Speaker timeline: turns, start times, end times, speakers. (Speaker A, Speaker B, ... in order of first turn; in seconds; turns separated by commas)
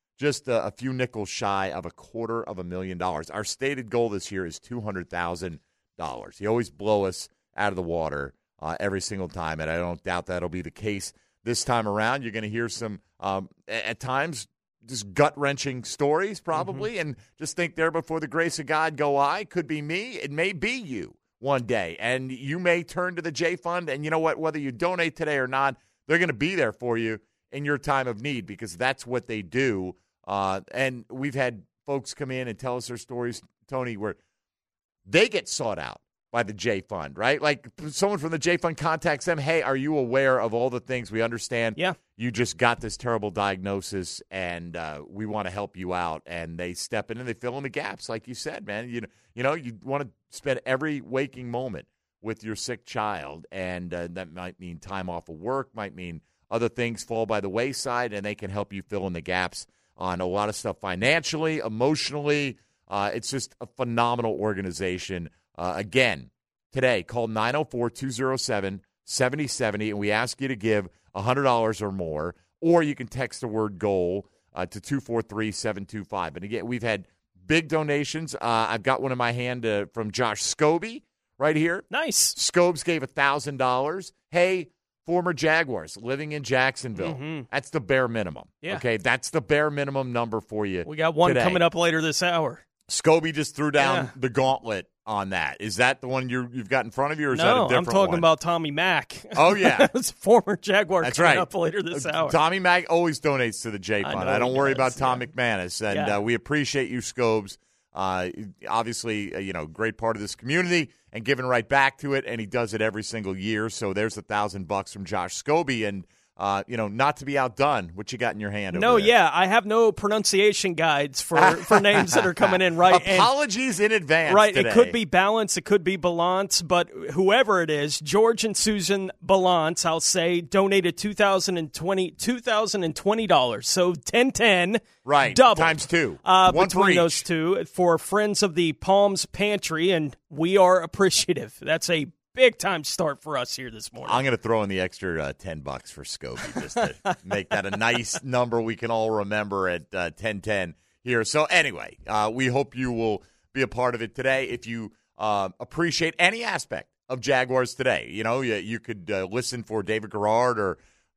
Speaker A: 0.2-34.2, Speaker B: 16.6-16.9, Speaker A: 35.0-91.6, Speaker B: 81.9-82.3, Speaker B: 87.0-87.5, Speaker B: 90.8-92.6, Speaker A: 92.9-98.2, Speaker B: 93.8-94.1, Speaker B: 97.3-102.4, Speaker A: 99.3-99.9, Speaker A: 101.0-119.1, Speaker B: 104.0-105.2, Speaker B: 105.9-106.2, Speaker B: 118.7-123.3, Speaker A: 121.3-125.0, Speaker B: 124.3-144.2, Speaker A: 135.0-137.2, Speaker A: 144.0-160.8